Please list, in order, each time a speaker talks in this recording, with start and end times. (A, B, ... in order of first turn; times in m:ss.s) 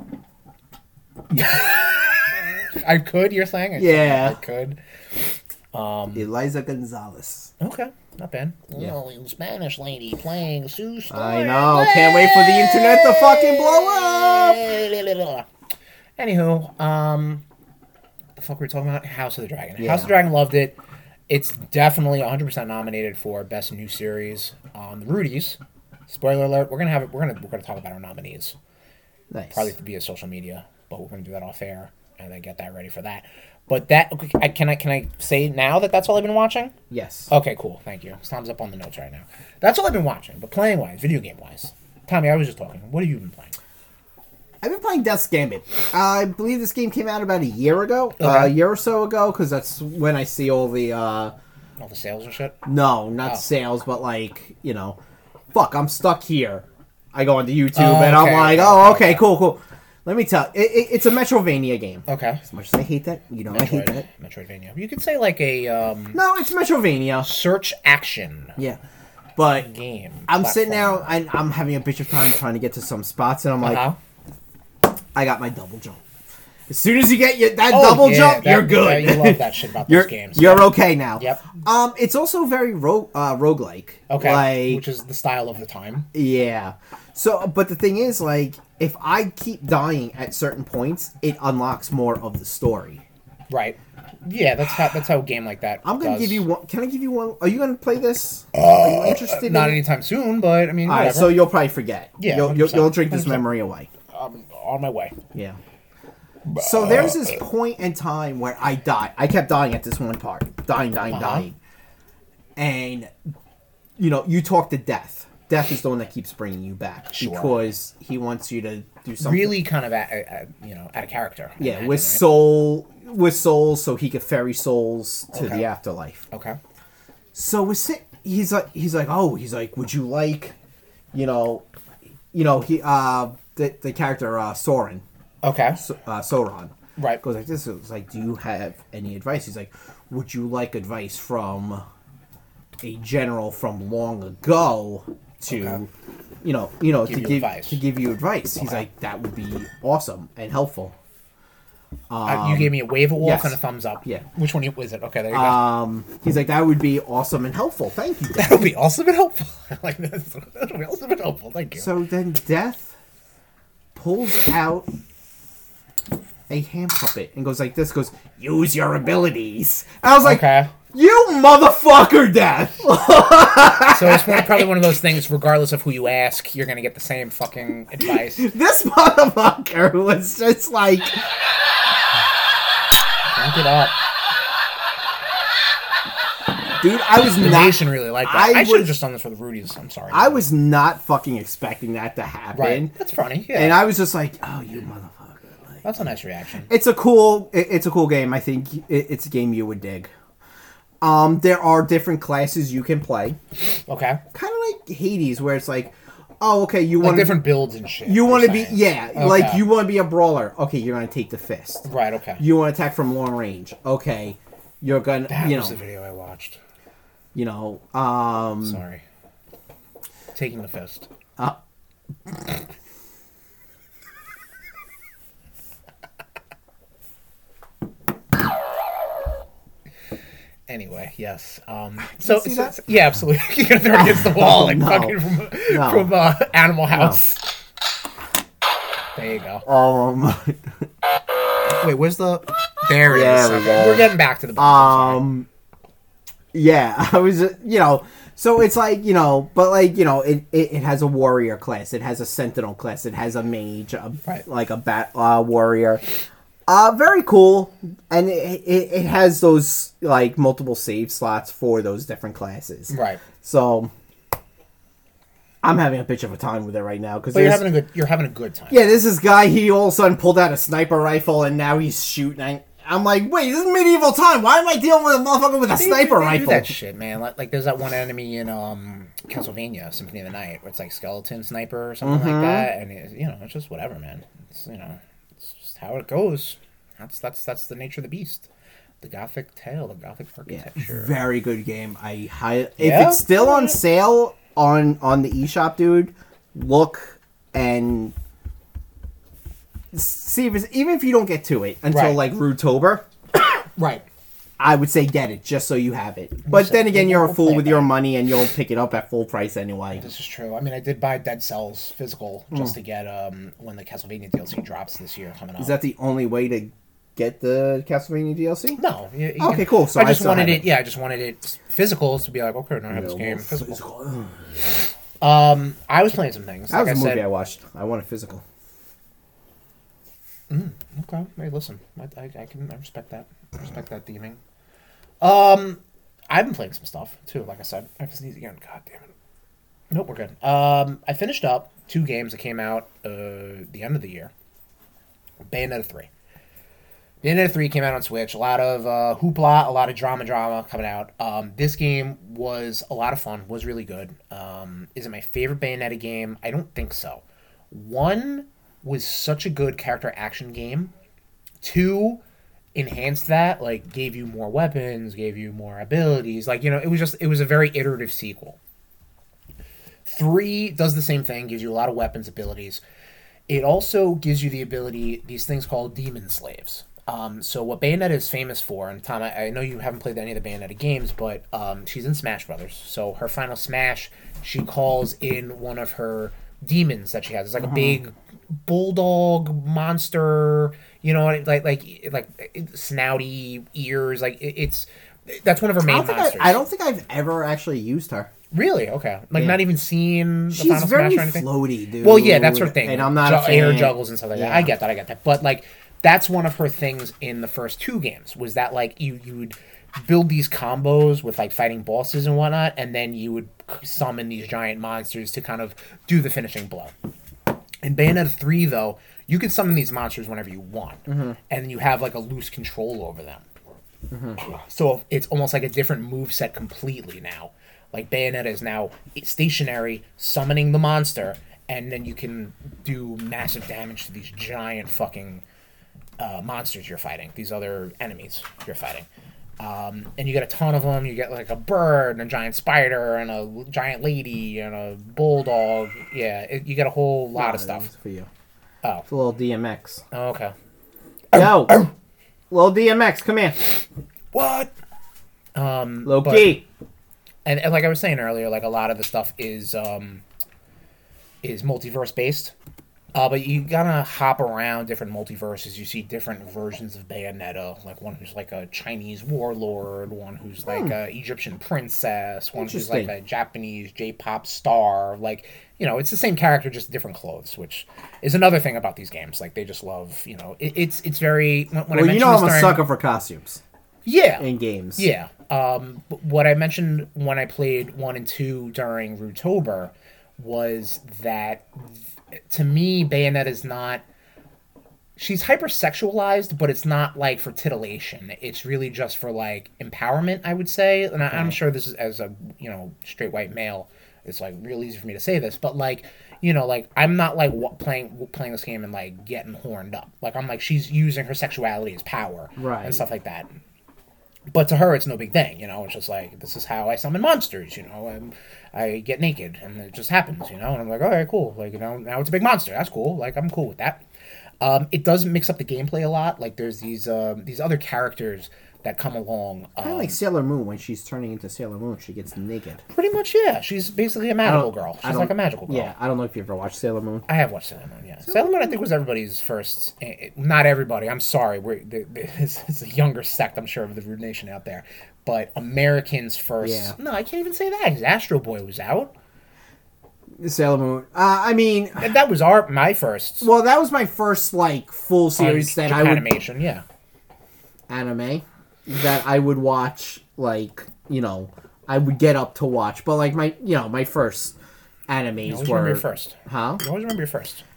0:01.3-0:01.6 A
0:01.3-0:04.8 B
0:03.8-0:04.4 A
0:05.7-0:06.3 B
0:06.1-0:07.5 A
0:07.6-0:15.5 B
0:11.1-0:14.6 A
0:16.2-0:17.4 B
0:18.4-0:20.8 B
0:19.8-0:20.1 A
0:21.3-0:28.6 B
0:29.3-0:29.7 A
0:29.5-0:36.8 B
0:36.9-0:37.3 A
0:37.3-0:43.6 B
0:44.6-0:51.3 A
0:48.2-0:48.6 B
0:51.8-0:52.6 B
0:52.6-0:55.0 A
0:55.5-1:04.1 A
0:57.7-0:59.3 B
1:02.1-1:02.4 B
1:03.5-1:06.2 B
1:06.1-1:07.3 A
1:07.2-1:08.6 B
1:09.4-1:09.7 A
1:09.6-1:11.2 B
1:10.3-1:13.8 A
1:13.6-1:14.0 B
1:15.2-1:16.0 A
1:16.7-1:24.8 A
1:17.7-1:21.5 B
1:24.1-1:26.1 B
1:26.1-1:33.0 A
1:33.5-1:36.5 B
1:35.8-1:39.8 A
1:38.6-1:41.4 B
1:40.9-1:43.9 A
1:42.2-1:43.5 B
1:44.1-1:45.2 B
1:45.3-1:45.6 A
1:46.5-1:51.6 A
1:51.0-1:51.5 B
1:52.6-1:53.1 A
1:54.0-1:59.6 A
1:57.1-1:57.6 B
1:59.2-2:02.3 B
2:01.6-2:06.2 A
2:05.3-2:05.7 B
2:06.3-2:06.6 B
2:07.3-2:10.6 A
2:11.1-2:11.6 A
2:12.3-2:15.0 A
2:15.4-2:15.8 B
2:15.8-2:21.8 A
2:17.0-2:17.2 B
2:22.8-2:25.9 A
2:25.5-2:25.8 B
2:26.4-2:31.0 A
2:27.0-2:27.8 B
2:28.6-2:28.9 B
2:32.1-2:34.2 A
2:32.3-2:35.7 B
2:35.3-2:38.7 A
2:38.4-2:41.9 B
2:41.8-2:43.0 A
2:44.0-2:44.9 A
2:46.5-2:54.9 A
2:50.2-2:50.7 B
2:53.9-2:58.5 B
2:58.0-3:01.3 A
3:03.3-3:04.0 B
3:06.8-3:09.0 A
3:07.4-3:10.5 B
3:10.1-3:12.9 A
3:12.6-3:13.9 B
3:13.5-3:15.8 A
3:15.8-3:16.7 B
3:16.7-3:20.1 A
3:21.0-3:23.4 A
3:23.9-3:24.2 B
3:24.3-3:27.5 A
3:27.0-3:29.6 B
3:28.0-3:31.9 A
3:31.8-3:32.4 B
3:32.4-3:35.8 A
3:35.3-3:36.6 B
3:37.3-3:38.8 A
3:38.6-3:39.0 B
3:40.3-3:41.1 B
3:50.7-3:57.6 B
3:52.2-3:52.8 A
3:53.9-3:56.1 A
3:56.9-3:57.2 A
3:59.2-3:59.6 B
3:59.6-4:00.9 A
4:01.7-4:05.3 B
4:03.1-4:05.5 A
4:06.5-4:16.0 A
4:16.7-4:23.9 A
4:22.9-4:23.2 B
4:25.6-4:27.7 A
4:27.3-4:28.9 B
4:28.7-4:36.7 A
4:35.7-4:48.5 B
4:42.0-4:42.7 A
4:49.0-4:51.2 B
4:50.5-4:58.2 A
4:52.8-4:53.8 B
4:59.9-5:03.1 A
5:01.9-5:02.2 B
5:03.8-5:04.1 B
5:04.6-5:10.1 A
5:06.5-5:08.0 B
5:09.9-5:15.8 B
5:15.6-5:18.8 A
5:18.8-5:23.8 B
5:19.4-5:20.7 A
5:22.9-5:24.4 A
5:25.2-5:27.2 B
5:26.7-5:28.4 A
5:30.5-5:34.4 B
5:35.2-5:39.1 B
5:39.9-5:44.3 B
5:45.5-5:46.1 B
5:47.2-6:00.9 B
6:01.6-6:02.2 B
6:02.8-6:08.6 B
6:10.0-6:12.8 B
6:13.5-6:28.1 B
6:27.6-6:28.0 A
6:28.6-6:36.6 B
6:35.8-6:38.3 A
6:38.5-6:41.5 B
6:39.4-6:39.6 A
6:40.5-6:44.7 A
6:42.0-6:56.9 B
6:57.8-7:03.5 B
7:01.1-7:01.4 A
7:04.1-7:04.4 A
7:04.4-7:15.4 B
7:16.2-7:19.1 B
7:19.6-7:27.9 B
7:27.4-7:28.3 A
7:29.1-7:30.0 A
7:30.1-7:30.5 B
7:31.3-7:31.9 B
7:31.3-7:31.9 A
7:32.5-7:33.6 A
7:34.3-7:34.7 B
7:35.6-7:36.6 B
7:36.0-7:36.6 A
7:37.4-7:40.2 B
7:41.4-7:42.5 B
7:43.1-8:02.8 B
7:52.6-7:53.1 A
8:01.9-8:03.6 A
8:04.0-8:11.9 B
8:04.4-8:05.1 A
8:12.5-8:14.0 B
8:15.2-8:33.5 B
8:32.6-8:33.1 A
8:34.5-8:44.0 B
8:44.6-8:50.2 B
8:49.8-8:52.8 A
8:52.9-8:55.9 B
8:54.4-8:57.3 A
8:57.3-9:09.1 B
8:58.2-8:58.8 A
9:06.6-9:07.0 A
9:10.4-9:12.1 A
9:12.0-9:13.5 B
9:13.4-9:16.3 A
9:15.4-9:16.8 B
9:17.9-9:24.6 A
9:25.1-9:26.8 A
9:25.5-9:27.6 B